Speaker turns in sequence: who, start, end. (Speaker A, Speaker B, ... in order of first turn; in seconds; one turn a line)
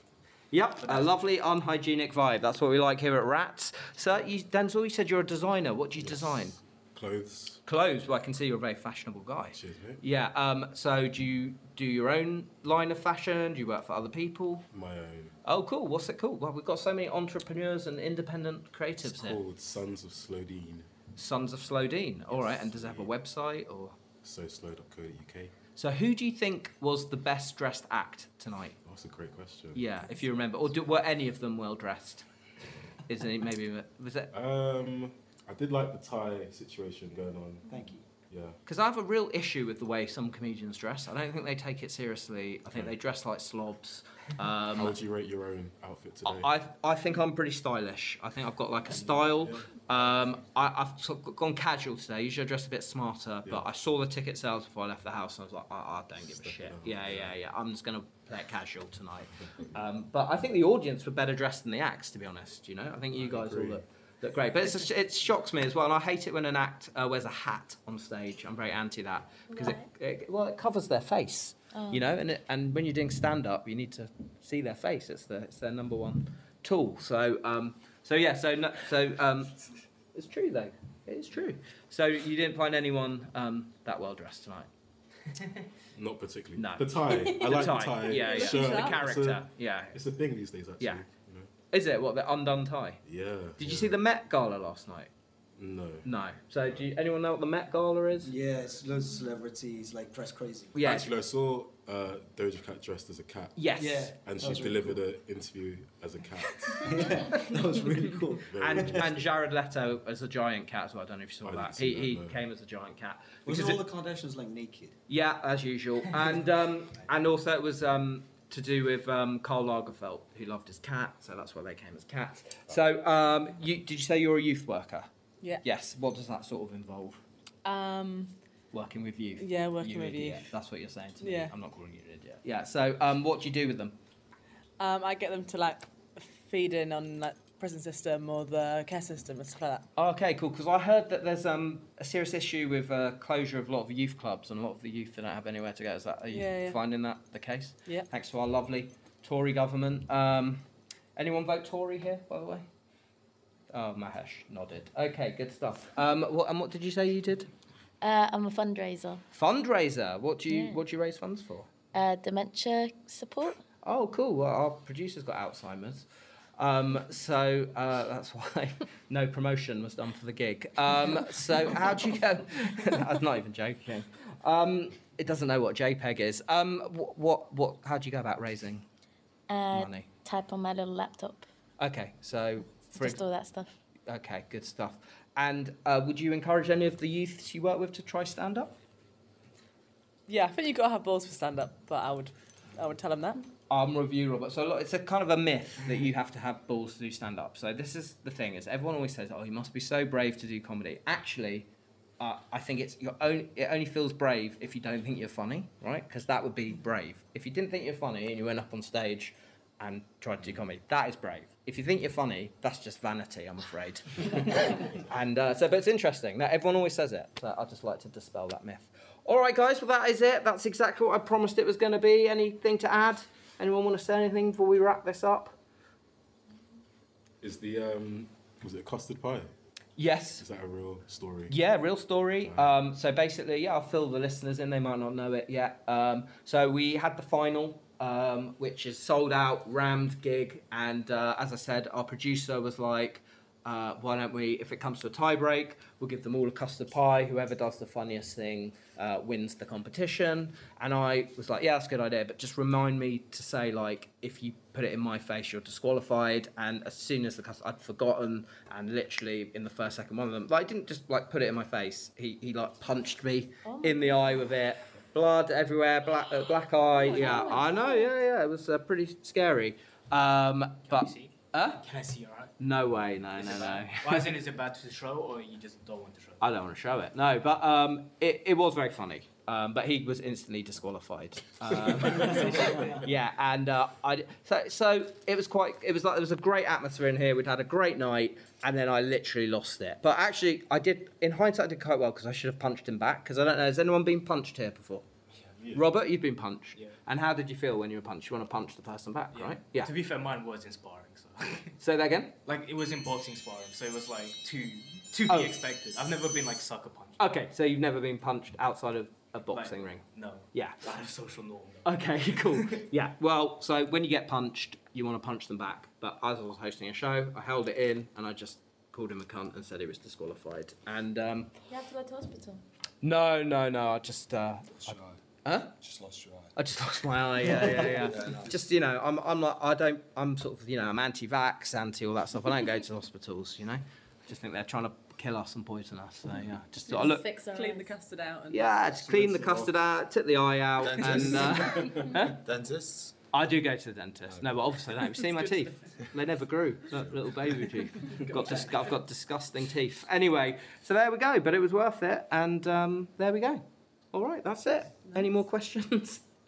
Speaker A: 0.5-6.6
Speaker B: 0.8-1.1
Speaker C: 6.0-7.6
Speaker A: 7.6-14.7
Speaker C: 9.5-10.0
Speaker C: 14.7-15.3
Speaker A: 15.4-19.4
Speaker C: 19.0-20.9
Speaker A: 21.1-23.9
Speaker C: 22.3-23.1
Speaker C: 24.2-25.5
Speaker A: 25.8-28.8
Speaker C: 28.8-29.8
Speaker A: 29.7-32.2
Speaker A: 33.0-34.3
Speaker C: 34.3-37.7
Speaker D: 37.7-38.0
Speaker C: 38.3-38.6
Speaker A: 38.6-45.0
Speaker C: 44.7-46.5
Speaker A: 46.2-79.6
Speaker C: 56.2-57.4
Speaker C: 63.1-63.8
Speaker A: 80.1-84.7
Speaker C: 86.0-91.5
Speaker A: 86.5-90.0
Speaker E: 88.3-88.9
Speaker A: 91.7-93.0
Speaker C: 93.0-94.0
Speaker A: 93.6-95.1
Speaker C: 95.6-96.1
Speaker A: 96.0-98.3
Speaker D: 98.2-100.7
Speaker A: 100.7-101.1
Speaker C: 100.8-107.1
Speaker A: 103.5-104.1
Speaker D: 103.8-105.0
Speaker D: 106.8-109.0
Speaker C: 108.5-109.2
Speaker A: 108.6-113.8
Speaker C: 111.4-112.4
Speaker D: 113.5-115.0
Speaker A: 115.1-125.1
Speaker A: 125.6-127.2
Speaker E: 127.6-128.3
Speaker A: 128.7-134.0
Speaker E: 129.4-130.5
Speaker E: 131.2-131.5
Speaker E: 134.8-139.9
Speaker A: 139.9-150.6
Speaker E: 146.3-146.8
Speaker A: 151.2-152.6
Speaker A: 153.7-157.5
Speaker F: 158.0-159.2
Speaker A: 159.3-161.7
Speaker F: 160.5-160.8
Speaker F: 161.9-163.6
Speaker A: 163.8-166.1
Speaker A: 166.6-178.8
Speaker F: 179.5-181.4
Speaker A: 179.7-180.1
Speaker A: 181.8-183.2
Speaker F: 182.9-183.7
Speaker A: 184.1-188.7
Speaker E: 190.3-193.4
Speaker A: 193.7-201.7
Speaker A: 202.2-225.5
Speaker C: 227.4-229.5
Speaker A: 230.0-230.4
Speaker C: 230.4-231.5
Speaker A: 231.5-271.8
Speaker C: 232.4-232.8
Speaker F: 263.6-263.9
Speaker F: 267.1-268.1
Speaker B: 270.9-272.5
Speaker A: 272.6-274.3
Speaker B: 273.3-276.4
Speaker A: 276.4-295.0
Speaker B: 281.9-283.0
Speaker A: 295.7-299.9
Speaker B: 299.3-301.7
Speaker A: 301.8-302.4
Speaker B: 302.4-307.2
Speaker A: 305.3-305.5
Speaker A: 307.2-310.8
Speaker B: 309.5-312.7
Speaker A: 311.8-321.5
Speaker F: 321.7-322.6
Speaker A: 323.0-325.7
Speaker G: 324.8-325.2
Speaker G: 325.8-326.5
Speaker A: 326.6-337.3
Speaker G: 327.4-328.6
Speaker E: 336.9-338.9
Speaker F: 337.3-337.8
Speaker A: 338.5-342.4
Speaker G: 339.1-339.7
Speaker G: 340.8-343.1
Speaker A: 343.3-356.2